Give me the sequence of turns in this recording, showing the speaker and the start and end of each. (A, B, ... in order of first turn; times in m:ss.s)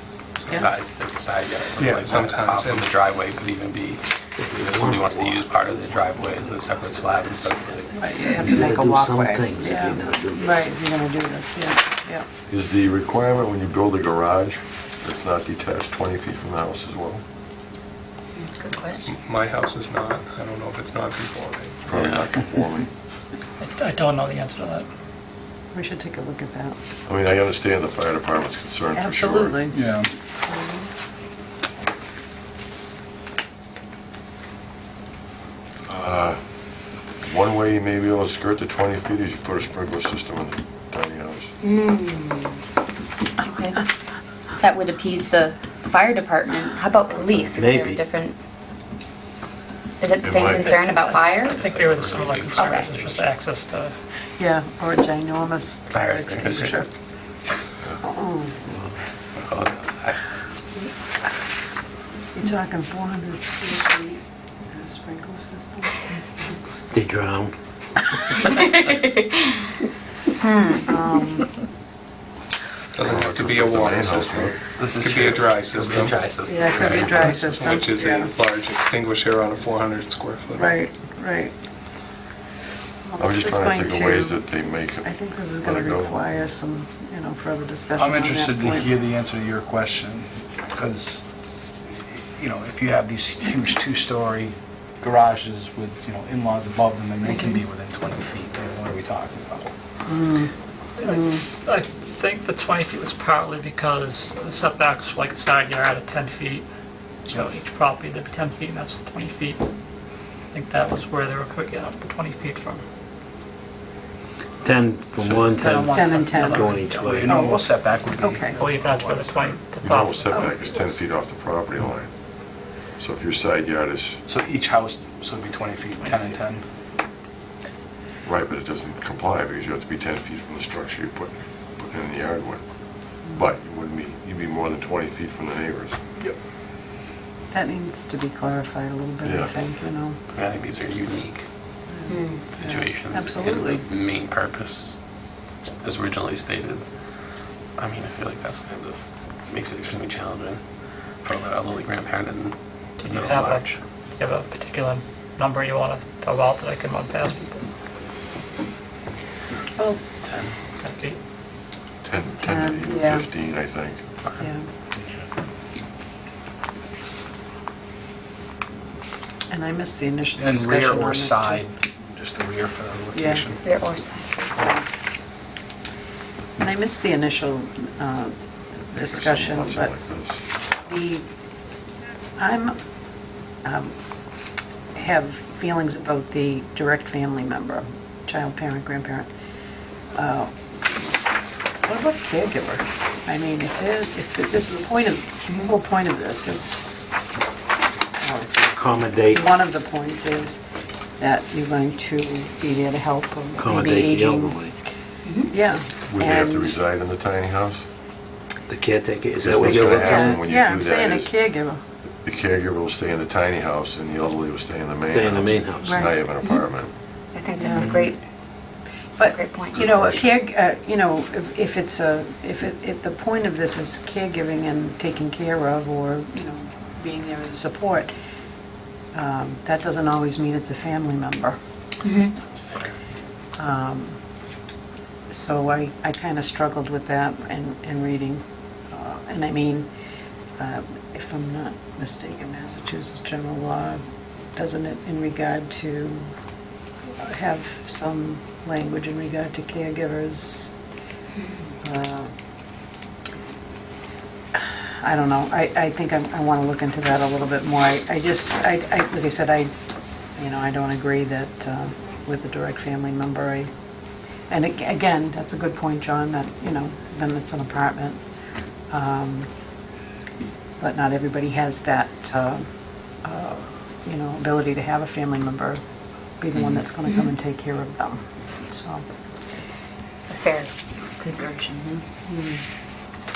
0:00.3-0:00.7 A
0:00.4-0:08.3 B
0:01.8-0:02.9 A
0:04.5-0:05.4 C
0:07.9-0:12.2 D
0:08.4-0:10.7 C
0:12.5-0:17.2 E
0:18.4-0:19.0 F
0:19.0-0:21.9 A
0:21.9-0:22.9 E
0:23.6-0:24.9 G
0:25.7-0:26.8 D
0:27.1-0:29.7 E
0:28.9-0:29.8 D
0:29.7-0:30.1 H
0:30.4-0:30.9 D
0:35.8-0:36.4 E
0:37.2-0:41.5 E
0:41.6-0:42.6 F
0:43.4-0:43.8 F
0:44.6-0:48.4 F
0:47.6-0:48.1 C
0:50.0-0:51.6 F
0:50.2-0:50.8 E
0:50.4-0:54.0 G
0:51.3-0:53.3 B
0:52.5-0:52.9 F
0:54.4-0:56.9 D
0:55.9-0:56.9 B
0:58.0-0:58.6 D
0:59.4-1:00.2 B
1:02.3-1:04.2 D
1:04.7-1:06.1 D
1:06.9-1:07.5 C
1:10.4-1:10.8 F
1:10.8-1:11.6 D
1:12.9-1:16.2 A
1:13.0-1:14.6 E
1:14.8-1:17.6 B
1:16.5-1:18.3 D
1:16.8-1:20.8 A
1:20.6-1:21.5 D
1:23.0-1:24.4 D
1:23.2-1:26.3 E
1:25.0-1:28.9 D
1:27.9-1:31.2 H
1:31.9-1:39.7 H
1:40.0-1:41.4 D
1:41.0-1:46.6 G
1:47.2-1:49.6 G
1:50.5-1:52.8 G
1:54.6-1:57.4 C
1:55.2-1:59.6 H
1:55.5-1:57.3 G
1:55.7-1:58.6 D
1:58.6-2:00.8 G
1:59.8-2:02.2 E
2:03.0-2:04.2 E
2:04.2-2:06.6 H
2:08.2-2:16.0 E
2:17.5-2:20.2 D
2:19.2-2:19.6 E
2:20.3-2:21.4 B
2:21.9-2:23.8 D
2:22.1-2:22.4 F
2:22.5-2:25.0 B
2:25.8-2:26.8 B
2:27.8-2:30.6 B
2:31.2-2:33.8 B
2:33.0-2:37.6 G
2:40.2-2:40.5 B
2:40.8-2:41.2 G
2:42.0-2:44.0 E
2:42.4-2:43.2 D
2:44.4-2:44.7 D
2:49.5-2:51.6 D
2:50.4-2:54.0 H
2:53.1-2:53.5 D
2:53.6-2:54.5 F
2:56.6-2:58.4 D
2:58.9-2:59.9 D
2:58.9-3:00.4 E
3:00.8-3:01.2 D
3:02.4-3:02.8 D
3:03.6-3:03.9 D
3:04.9-3:09.3 D
3:10.1-3:10.5 D
3:11.8-3:16.9 D
3:18.2-3:18.7 D
3:18.6-3:19.5 C
3:19.3-3:20.6 D
3:21.2-3:24.8 D
3:23.6-3:24.7 C
3:25.4-3:26.7 D
3:26.0-3:27.8 E
3:28.7-3:30.4 C
3:29.4-3:31.4 E
3:29.6-3:31.8 D
3:32.2-3:36.9 E
3:35.1-3:36.0 C
3:35.8-3:36.2 D
3:37.3-3:38.2 F
3:37.6-3:38.0 D
3:39.2-3:48.1 D
3:39.2-3:39.9 F
3:39.8-3:40.2 E
3:49.1-3:51.6 D
3:52.0-3:52.3 F
3:52.4-3:52.9 B
3:53.6-3:54.2 D
3:55.3-3:59.9 D
4:00.6-4:04.0 D
4:04.5-4:06.2 D
4:07.1-4:10.7 D
4:11.8-4:12.3 D
4:14.5-4:19.7 D
4:20.4-4:23.7 D
4:24.5-4:28.2 D
4:28.9-4:29.5 D
4:30.8-4:32.7 D
4:33.2-4:35.8 D
4:36.4-4:39.0 D
4:39.5-4:42.0 F
4:42.3-4:42.6 D